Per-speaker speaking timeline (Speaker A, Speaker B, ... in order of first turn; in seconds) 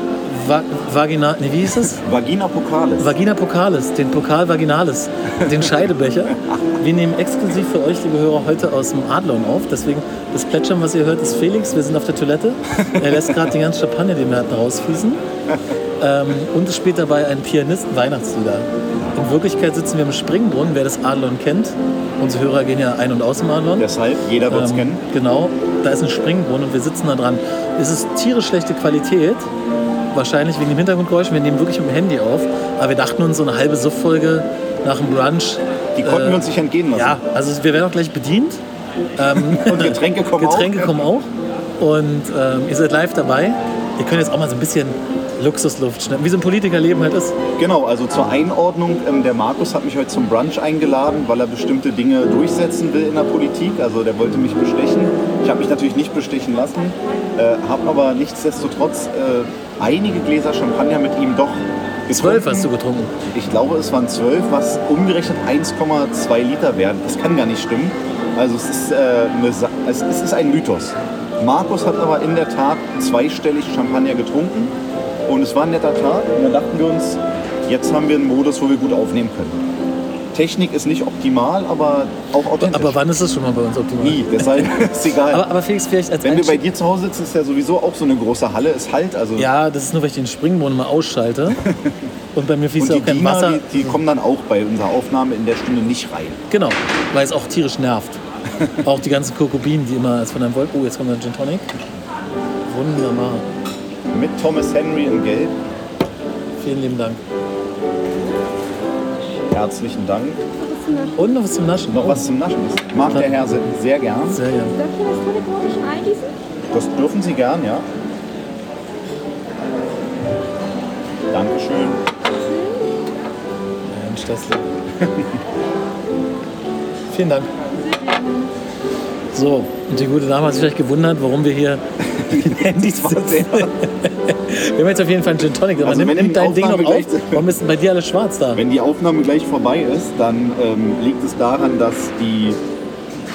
Speaker A: 0.2-2.0, 3.0-15.2, 16.0-23.9, 24.5-29.5, 30.1-38.6, 39.2-41.3, 41.8-47.4, 62.1-63.1, 82.6-86.6, 89.4-91.7, 92.3-94.0, 96.5-98.2, 98.8-101.7, 102.7-103.5, 106.6-107.2, 111.2-112.2, 113.1-113.4, 114.3-114.7, 123.9-124.6, 127.1-127.5, 129.3-138.6
Speaker B: 1.9-3.1, 13.0-13.3, 23.8-25.0, 36.0-37.2, 39.3-41.0, 47.6-62.7, 63.3-74.7, 75.3-79.6, 80.3-83.0, 84.0-85.4, 86.2-89.5, 91.6-92.0, 92.8-96.4, 104.1-105.5, 109.5-110.4, 111.9-114.4, 116.7-117.8, 121.3-122.0, 125.0-125.3, 132.0-133.7, 135.8-137.5, 138.5-142.6
Speaker C: 110.6-111.2, 114.7-116.3, 122.4-123.0, 127.7-128.5